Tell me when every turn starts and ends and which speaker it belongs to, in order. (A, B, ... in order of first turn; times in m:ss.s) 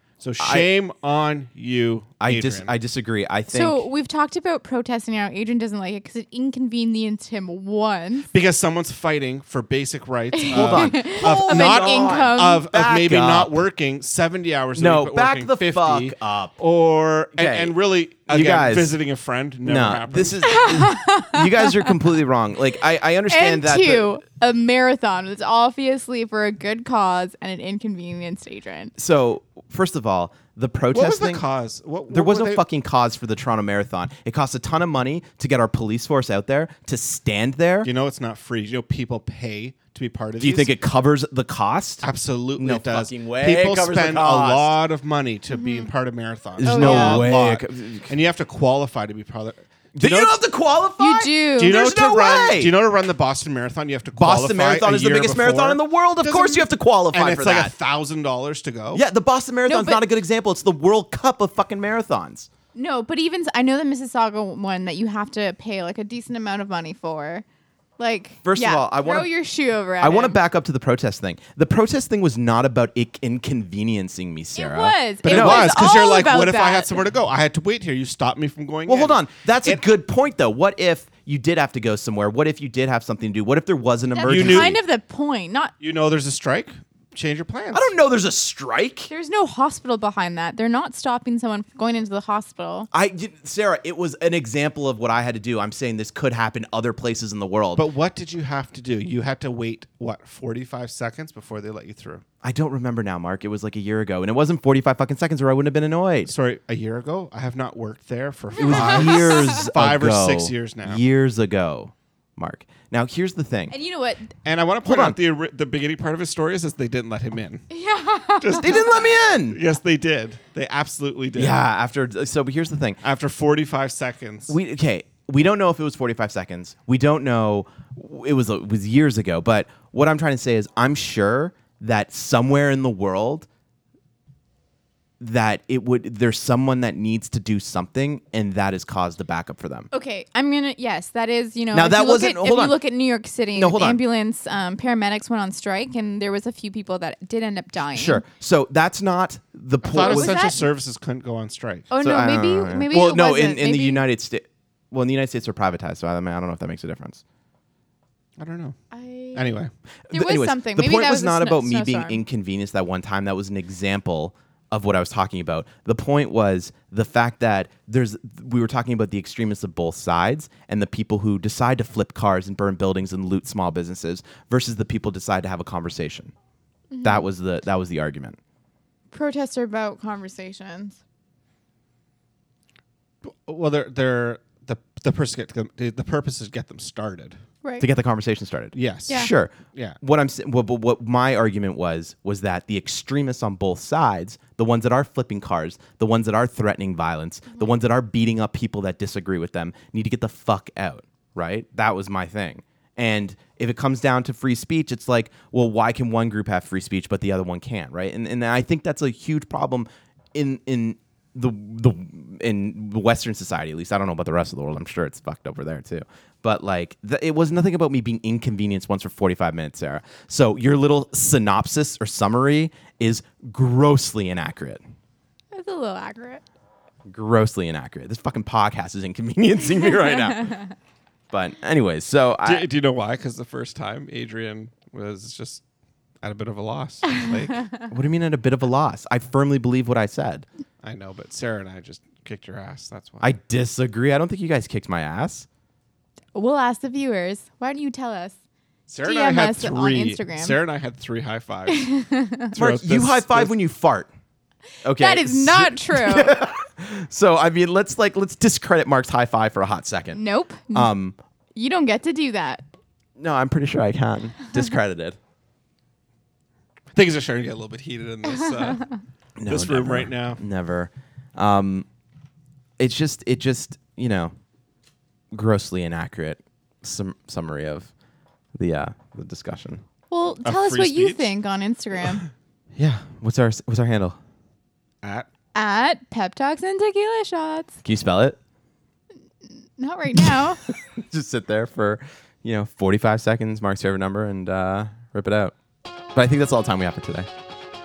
0:00.2-0:02.7 A
0:00.4-0:00.7 B
0:02.2-0:03.9 B
0:03.5-0:08.3 C
0:08.3-0:20.6 A
0:10.3-0:12.6 C
0:10.5-0:13.6 B
0:14.8-0:16.6 B
0:17.4-0:17.8 B
0:18.3-0:19.0 B
0:19.6-0:24.2 B
0:20.5-0:21.9 C
0:23.3-0:28.9 C
0:29.0-0:31.4 B
0:30.9-0:32.6 A
0:32.1-0:37.9 B
0:37.8-0:40.7 A
0:40.4-0:44.8 B
0:42.0-0:50.4 A
0:45.5-0:45.9 C
0:46.6-0:48.2 B
0:46.6-0:47.3 C
0:50.0-0:52.8 B
0:51.0-0:51.8 C
0:51.6-0:59.0 A
0:54.2-0:57.7 B
0:58.9-1:02.5 B
0:59.7-1:00.0 C
1:02.8-1:07.4 C
1:08.0-1:10.4 C
1:08.4-1:09.3 B
1:10.0-1:16.1 B
1:14.6-1:17.0 C
1:15.2-1:19.8 A
1:18.9-1:24.8 B
1:24.1-1:25.7 C
1:24.2-1:24.8 A
1:25.8-1:27.9 A
1:27.7-1:29.1 B
1:29.1-1:32.9 C
1:32.9-1:37.9 B
1:37.8-1:42.2 A
1:42.4-1:46.3 B
1:46.3-1:51.0 A
1:48.6-1:49.7 C
1:48.6-1:53.7 B
1:53.7-1:54.3 C
1:54.4-1:57.6 A
1:54.8-1:55.2 B
1:57.7-1:58.8 C
1:58.4-2:01.6 A
1:58.5-1:59.6 B
2:01.4-2:03.0 B
2:03.0-2:04.6 A
2:04.5-2:13.5 B
2:15.2-2:19.9 B
2:19.9-2:28.2 C
2:21.7-2:22.8 B
2:23.6-2:24.0 B
2:27.9-2:30.6 B
2:29.8-2:31.9 A
2:30.0-2:30.6 C
2:31.9-2:34.0 C
2:32.0-2:37.2 B
2:38.4-2:38.8 A
2:38.9-2:39.6 C
2:39.4-2:39.7 A
2:40.1-2:56.3 B
2:40.1-2:42.2 C
2:56.9-2:57.3 C
2:57.0-2:58.4 B
2:59.1-3:01.0 C
3:03.2-3:07.4 A
3:07.6-3:07.9 C
3:07.8-3:44.8 B
3:08.7-3:10.0 A
3:45.5-3:46.4 C
3:47.1-3:50.6 B
3:51.3-3:52.7 B
3:52.4-3:55.6 A
3:56.2-3:57.7 A
3:57.9-4:00.5 B
4:00.8-4:03.4 A
4:03.2-4:05.5 B
4:06.4-4:08.4 C
4:08.9-4:11.9 A
4:09.0-4:10.6 C
4:11.7-4:12.5 C
4:12.5-4:13.5 A
4:12.6-4:14.1 B
4:14.8-4:21.2 B
4:15.0-4:16.4 C
4:20.2-4:20.9 C
4:21.6-4:22.6 C
4:23.2-4:25.2 B
4:26.9-4:28.8 A
4:29.4-4:31.9 B
4:29.5-4:30.4 A
4:32.8-4:34.3 B
4:35.3-4:37.9 B
4:38.6-4:39.8 B
4:40.1-4:42.2 C
4:40.4-4:41.3 A
4:42.8-4:44.2 B
4:45.0-4:45.3 A
4:45.6-4:47.8 C
4:47.8-4:48.4 B
4:49.8-4:50.6 C
4:50.2-4:55.5 B
4:56.1-4:57.3 B